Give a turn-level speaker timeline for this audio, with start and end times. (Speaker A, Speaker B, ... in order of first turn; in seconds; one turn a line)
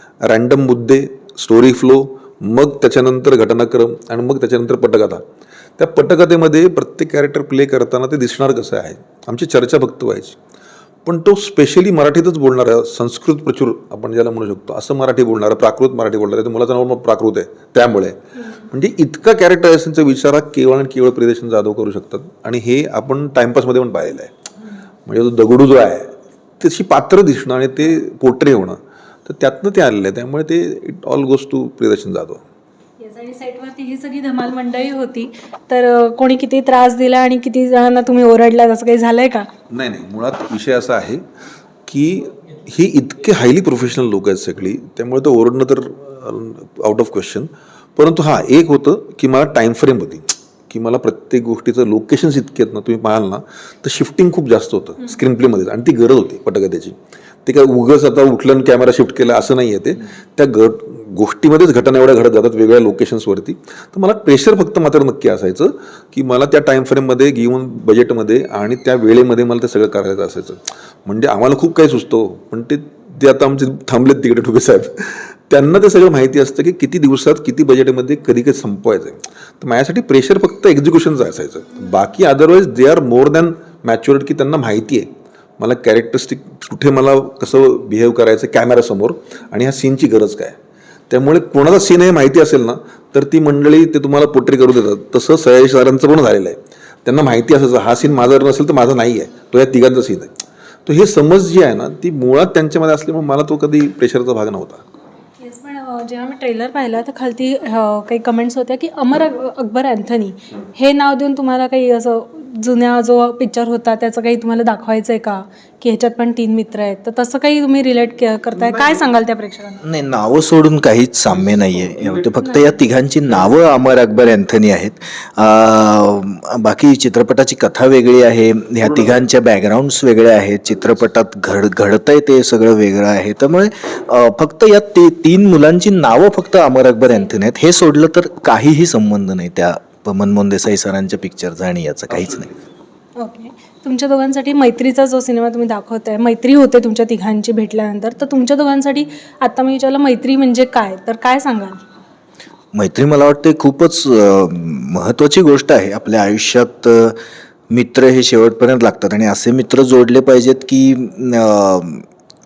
Speaker A: 0.2-5.2
Speaker A: 5.8-10.4
Speaker A: 11.0-24.3
Speaker A: 25.1-32.4
Speaker B: 33.0-39.5
Speaker A: 39.7-41.2
Speaker A: 41.9-90.5
Speaker A: 91.1-100.3
Speaker A: 100.8-104.8
Speaker B: 105.4-119.8
Speaker C: 119.8-142.5
Speaker A: 121.3-122.2
Speaker B: 143.2-151.8
Speaker C: 152.7-157.2
Speaker C: 157.7-162.0